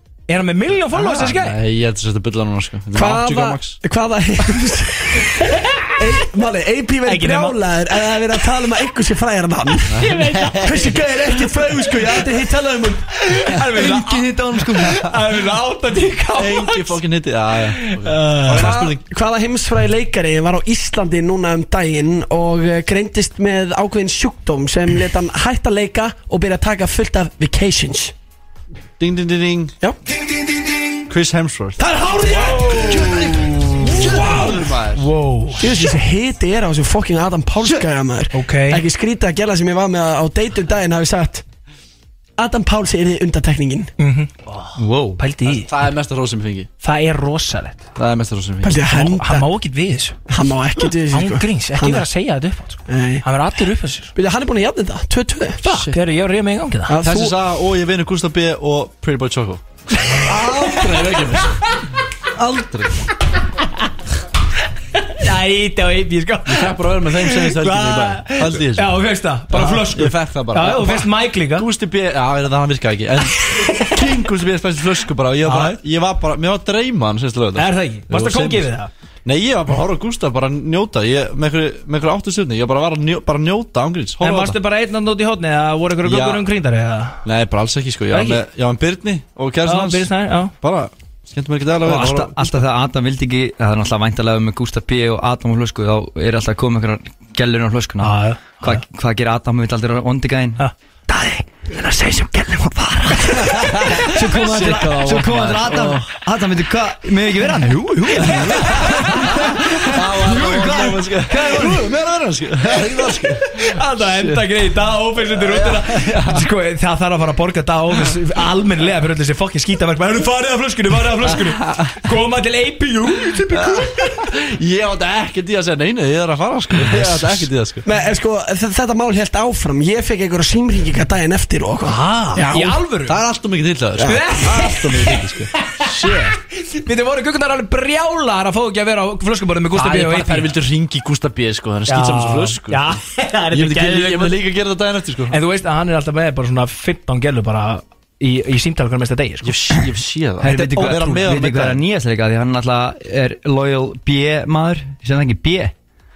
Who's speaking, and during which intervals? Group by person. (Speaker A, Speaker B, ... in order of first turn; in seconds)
Speaker A: 0.3-1.6, 7.1-7.6, 10.0-10.9, 13.2-17.0, 17.8-18.8, 32.3-32.9, 33.5-35.8, 38.3-38.8, 44.0-45.7, 46.8-47.8, 48.8-50.2, 51.1-54.1, 55.6-57.0, 60.0-60.9, 65.0-71.7, 75.5-75.8, 77.6-78.9, 84.2-87.2, 88.1-88.4, 89.7-90.5, 98.0-98.8, 108.2-109.9, 113.5-124.3, 127.0-127.3, 131.9-133.2, 134.0-135.9, 136.5-140.5, 141.9-144.4, 145.3-149.6
Speaker B: 0.9-3.8, 9.9-11.0, 16.3-19.0, 29.0-29.8, 31.1-35.1, 45.5-46.7, 48.0-48.9, 55.7-56.0, 57.0-61.8, 62.3-63.1, 66.5-69.0, 69.5-78.7, 79.2-84.6, 86.0-86.5, 87.2-92.7, 103.4-106.2, 108.2-114.5, 115.3-116.5, 121.4-122.0, 123.5-127.8, 132.3-136.4, 139.7-145.4, 149.4-151.8
Speaker C: 2.9-13.2, 18.5-28.1, 31.8-33.2, 34.2-34.5, 35.6-41.4, 42.4-43.9, 48.6-49.5, 50.3-52.1, 52.9-53.2, 54.1-55.6, 56.9-57.4, 127.8-132.7, 134.0-134.2
Speaker D: 13.7-15.0, 44.8-45.2, 91.8-111.8, 150.4-155.7